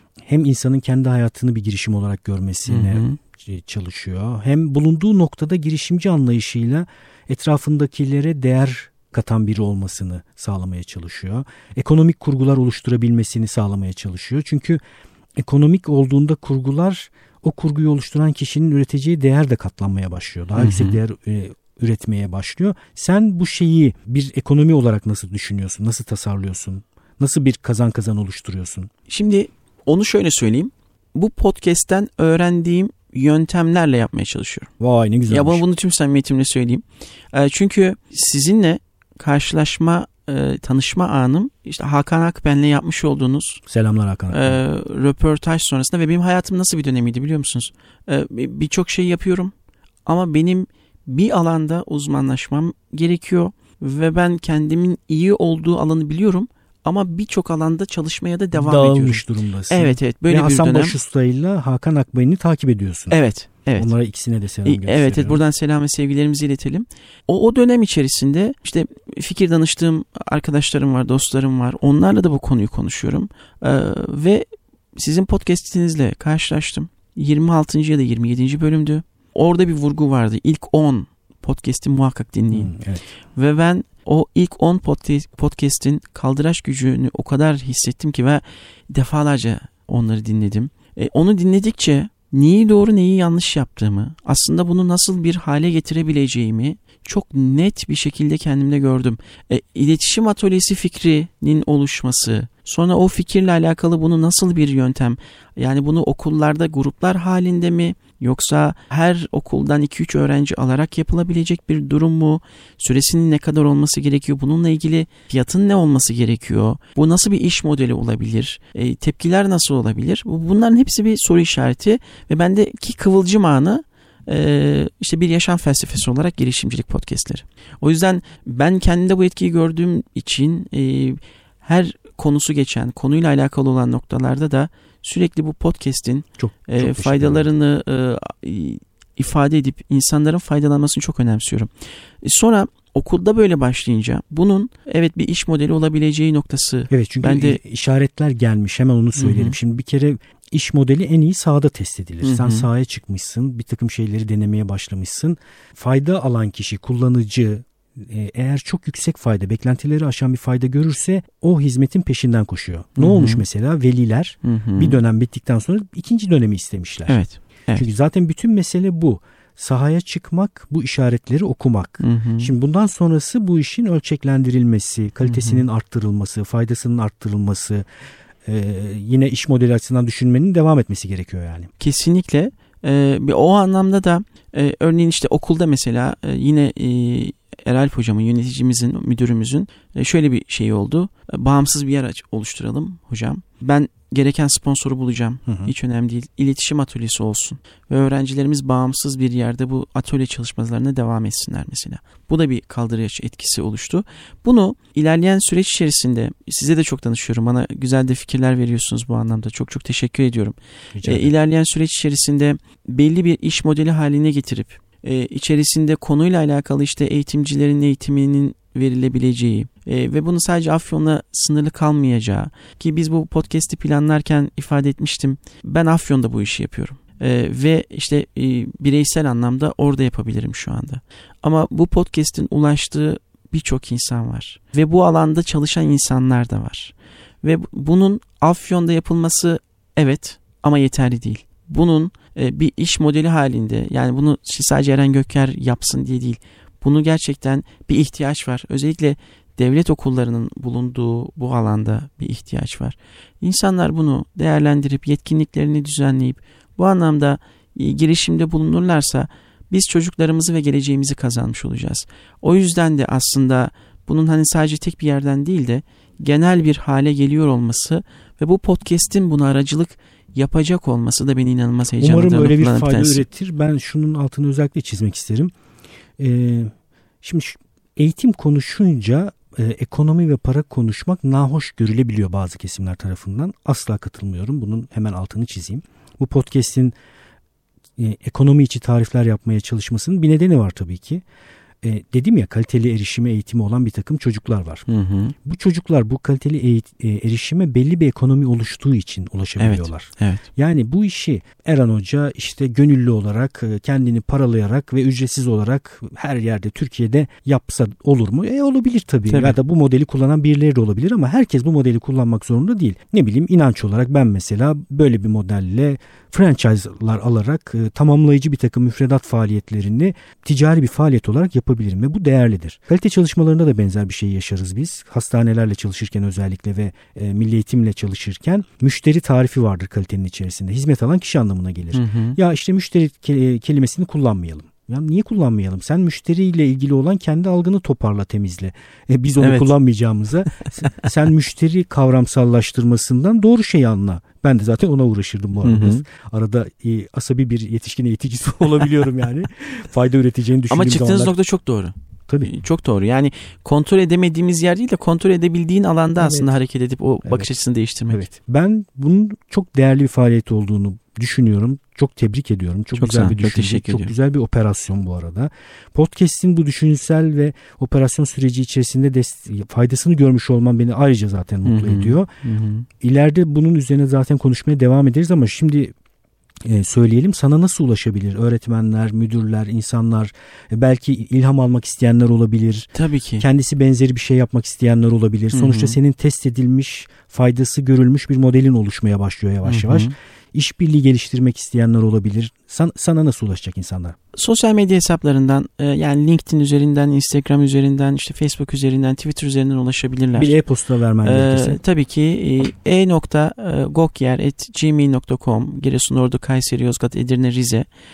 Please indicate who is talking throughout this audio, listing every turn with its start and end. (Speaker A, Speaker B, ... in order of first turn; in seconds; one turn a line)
Speaker A: 0.2-14.8
Speaker B: 2.7-3.2
Speaker A: 15.4-28.9
Speaker B: 20.6-21.0
Speaker B: 29.1-34.7
Speaker A: 34.8-35.6
Speaker B: 35.3-43.6
Speaker A: 43.7-44.6
Speaker B: 44.3-49.5
Speaker B: 50.0-61.0
Speaker A: 58.5-63.2
Speaker B: 63.1-63.9
Speaker A: 63.7-65.4
Speaker B: 64.6-82.7
Speaker A: 82.5-83.0
Speaker B: 83.3-141.7
Speaker A: 136.4-137.5
Speaker B: 142.2-147.6
Speaker A: 146.9-167.2
Speaker B: 149.2-149.6
Speaker B: 152.2-152.7
Speaker B: 163.0-163.4
Speaker B: 164.4-165.0
Speaker B: 167.1-167.8
Speaker A: 167.7-177.8
Speaker B: 172.0-172.5
Speaker B: 175.2-175.6
Speaker A: 178.4-181.7
Speaker B: 181.8-273.2
Speaker A: 195.5-195.7
Speaker A: 210.9-211.3
Speaker A: 272.0-275.5
Speaker A: 276.2-276.7
Speaker A: 277.2-286.9
Speaker A: 288.0-291.2
Speaker A: 291.8-294.9
Speaker B: 294.9-295.3
Speaker A: 295.4-351.3
Speaker B: 299.6-300.4
Speaker B: 309.3-309.6
Speaker B: 331.9-332.4
Speaker B: 339.4-339.7
Speaker B: 340.6-340.9
Speaker B: 345.6-346.0
Speaker B: 350.7-358.2
Speaker A: 356.2-356.6
Speaker A: 357.2-357.5
Speaker A: 358.1-372.3
Speaker B: 362.9-364.1
Speaker B: 371.6-372.9
Speaker A: 373.0-375.9
Speaker A: 376.6-394.2
Speaker B: 382.9-383.4
Speaker B: 385.5-386.0
Speaker B: 389.6-390.1
Speaker B: 394.3-400.5
Speaker A: 400.3-401.8
Speaker B: 401.2-407.9